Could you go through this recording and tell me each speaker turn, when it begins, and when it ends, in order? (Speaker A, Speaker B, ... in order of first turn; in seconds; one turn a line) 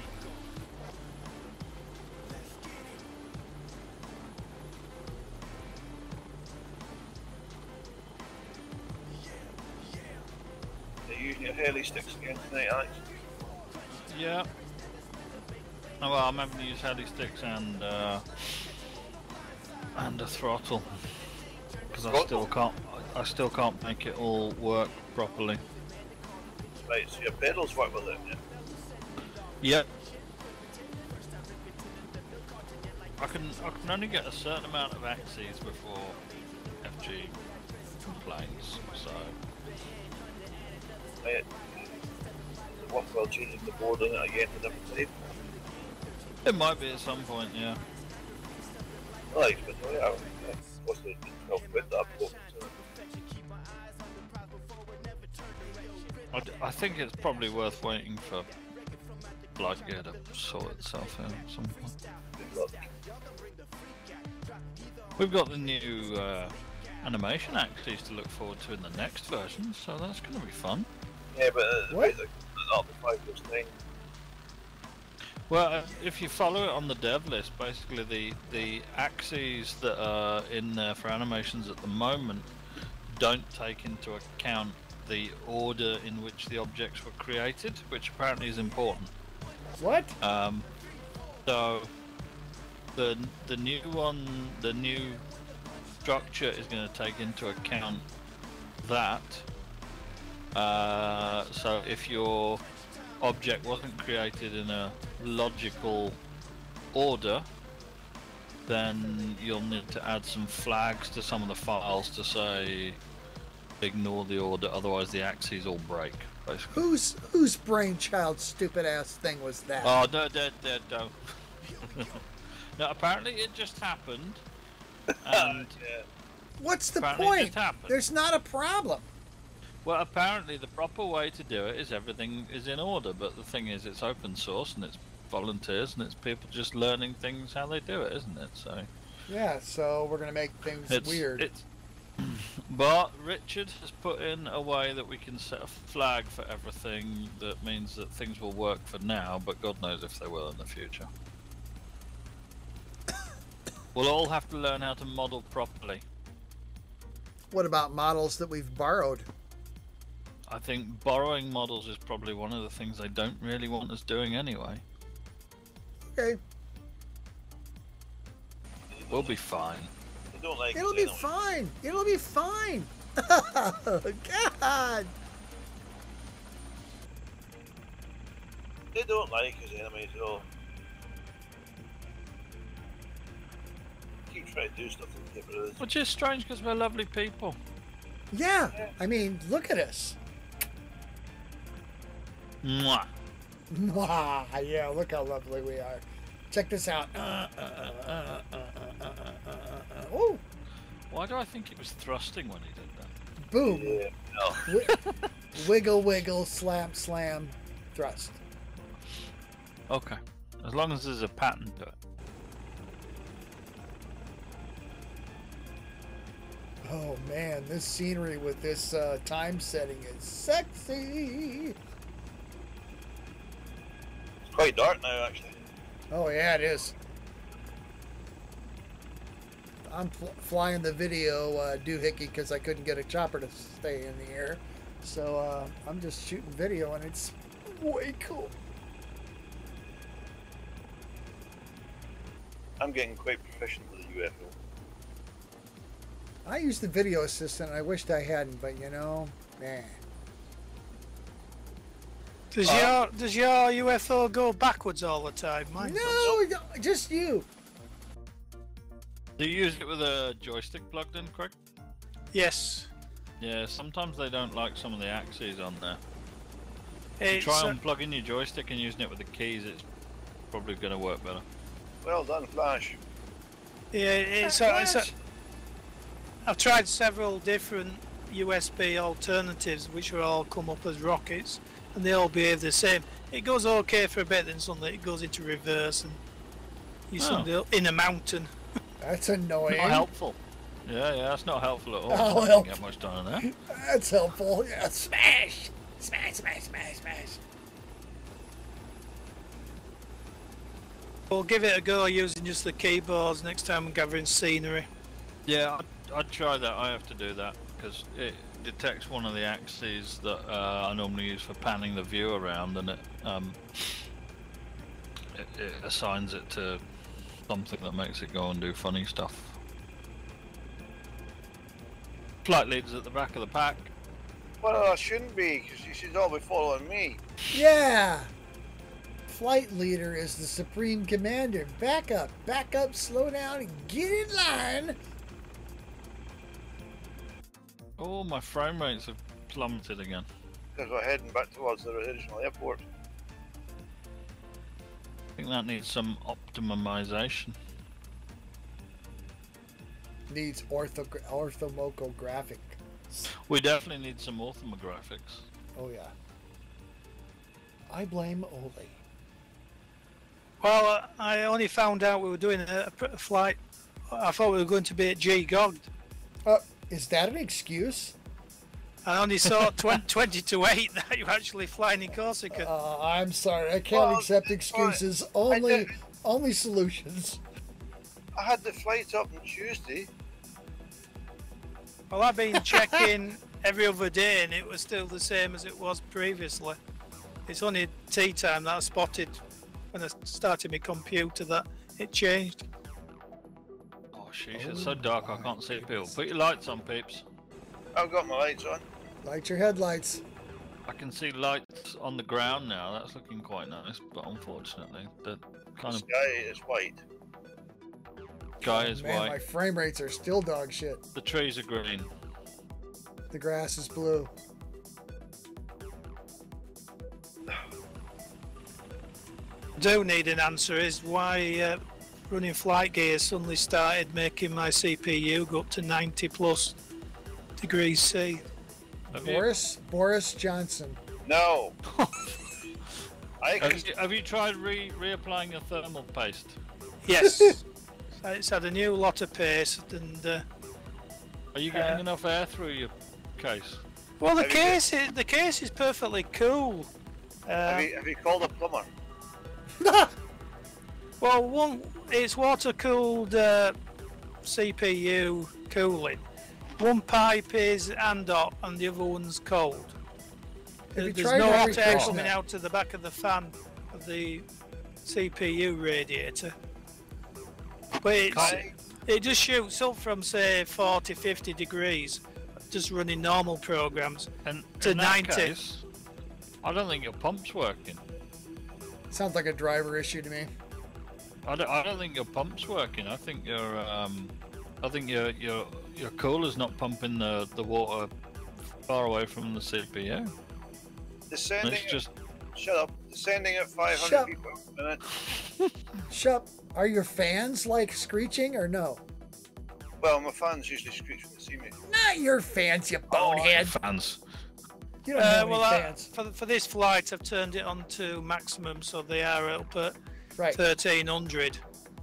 Speaker A: 11.1-13.0
Speaker B: 14.0-14.5
Speaker B: 16.0-18.7
Speaker B: 19.9-21.3
Speaker B: 21.9-25.6
Speaker A: 22.1-22.4
Speaker A: 26.7-28.4
Speaker B: 29.6-30.0
Speaker B: 33.2-39.4
Speaker A: 41.2-41.8
Speaker A: 42.7-45.2
Speaker B: 46.4-47.8
Speaker A: 49.3-52.7
Speaker B: 56.3-58.6
Speaker B: 59.6-62.0
Speaker A: 62.4-62.9
Speaker B: 65.2-70.9
Speaker A: 71.3-73.7
Speaker C: 71.9-72.2
Speaker B: 75.5-82.5
Speaker B: 83.1-89.1
Speaker C: 89.8-90.2
Speaker B: 90.2-90.7
Speaker B: 91.5-91.9
Speaker B: 93.0-95.2
Speaker B: 96.0-98.0
Speaker B: 98.8-99.5
Speaker B: 100.5-102.6
Speaker B: 103.2-106.2
Speaker B: 106.9-107.5
Speaker B: 108.7-113.0
Speaker B: 113.8-116.8
Speaker C: 116.7-120.0
Speaker B: 119.8-122.2
Speaker B: 122.8-124.4
Speaker A: 125.1-126.1
Speaker B: 125.2-125.7
Speaker C: 126.6-129.1
Speaker B: 127.0-128.0
Speaker B: 129.8-138.9
Speaker C: 139.3-141.5
Speaker B: 140.9-141.7
Speaker B: 142.2-151.1
Speaker B: 153.9-156.0
Speaker C: 157.5-159.3
Speaker B: 160.5-164.8
Speaker C: 166.1-166.4
Speaker A: 168.9-169.3
Speaker B: 169.1-169.9
Speaker A: 170.3-171.3
Speaker C: 170.7-175.1
Speaker A: 178.9-180.4
Speaker A: 184.3-185.8
Speaker B: 185.8-187.6
Speaker C: 188.3-190.2
Speaker B: 192.6-193.1
Speaker C: 193.7-200.4
Speaker B: 201.1-203.1
Speaker C: 203.4-204.0
Speaker A: 203.6-204.6
Speaker C: 204.6-204.9
Speaker B: 204.9-205.2
Speaker C: 205.5-208.4
Speaker B: 209.9-211.9
Speaker C: 216.8-221.8
Speaker A: 224.4-225.6
Speaker C: 226.1-226.9
Speaker C: 229.8-238.5
Speaker A: 242.8-244.6
Speaker C: 246.4-250.0
Speaker D: 252.5-256.3
Speaker A: 252.7-252.9
Speaker C: 255.8-257.5
Speaker B: 259.4-261.6
Speaker D: 262.3-262.9
Speaker B: 263.4-266.0
Speaker D: 267.2-267.8
Speaker B: 267.3-269.9
Speaker B: 270.5-271.4
Speaker A: 272.0-273.0
Speaker D: 273.9-275.1
Speaker C: 274.4-275.1
Speaker D: 276.4-286.2
Speaker D: 287.1-288.5
Speaker B: 287.2-287.5
Speaker C: 289.0-290.1
Speaker B: 289.7-293.5
Speaker C: 292.1-292.8
Speaker C: 293.4-297.4
Speaker D: 301.3-304.9
Speaker B: 305.4-314.1
Speaker B: 315.3-316.8
Speaker B: 317.5-319.6
Speaker B: 322.4-323.9
Speaker A: 324.6-327.2
Speaker C: 327.5-328.3
Speaker C: 329.3-335.0
Speaker B: 338.0-340.3
Speaker A: 340.8-342.9
Speaker B: 345.4-347.6
Speaker C: 350.3-353.3
Speaker B: 353.3-355.4
Speaker C: 355.8-356.1
Speaker C: 357.9-359.0
Speaker D: 360.6-365.9
Speaker C: 366.4-368.2
Speaker D: 369.1-372.7
Speaker C: 372.5-377.4
Speaker A: 373.9-375.9
Speaker A: 378.4-380.1
Speaker D: 382.1-386.8
Speaker C: 382.6-383.0
Speaker D: 387.5-389.4
Speaker D: 389.9-392.7
Speaker B: 394.1-397.2
Speaker C: 394.5-396.1
Speaker A: 397.9-398.8
Speaker C: 399.2-400.2
Speaker B: 400.9-406.1
Speaker A: 405.9-407.0
Speaker B: 408.6-409.4
Speaker C: 408.6-411.0
Speaker B: 411.1-412.1
Speaker C: 413.3-414.3
Speaker D: 419.8-426.8
Speaker D: 427.6-428.4
Speaker C: 429.1-431.0
Speaker B: 429.1-429.5
Speaker A: 431.2-431.8
Speaker B: 431.9-432.4
Speaker A: 433.4-433.9
Speaker B: 433.6-436.6
Speaker D: 437.0-437.6
Speaker C: 437.2-437.6
Speaker D: 438.2-440.4
Speaker B: 441.5-443.8
Speaker D: 441.7-442.0
Speaker D: 444.2-446.9
Speaker A: 444.4-444.8
Speaker D: 447.5-447.9
Speaker A: 447.6-448.9
Speaker C: 449.8-450.1
Speaker D: 451.2-453.8
Speaker D: 454.4-456.2
Speaker D: 456.8-459.9
Speaker C: 460.9-462.4
Speaker D: 461.0-464.4
Speaker B: 461.4-462.2
Speaker D: 465.1-466.6
Speaker D: 468.0-474.3
Speaker B: 468.3-468.6
Speaker A: 468.3-468.7
Speaker B: 474.4-475.8
Speaker D: 474.8-475.6
Speaker B: 476.6-478.0
Speaker C: 479.1-480.5
Speaker B: 481.4-488.1
Speaker B: 488.9-490.3
Speaker A: 491.3-495.0
Speaker B: 491.6-492.1
Speaker C: 493.9-494.3
Speaker C: 496.1-499.0
Speaker A: 500.0-501.8
Speaker C: 501.9-503.8
Speaker A: 503.1-503.5
Speaker B: 503.5-504.2
Speaker C: 505.1-506.1
Speaker D: 505.1-509.9
Speaker D: 510.5-511.6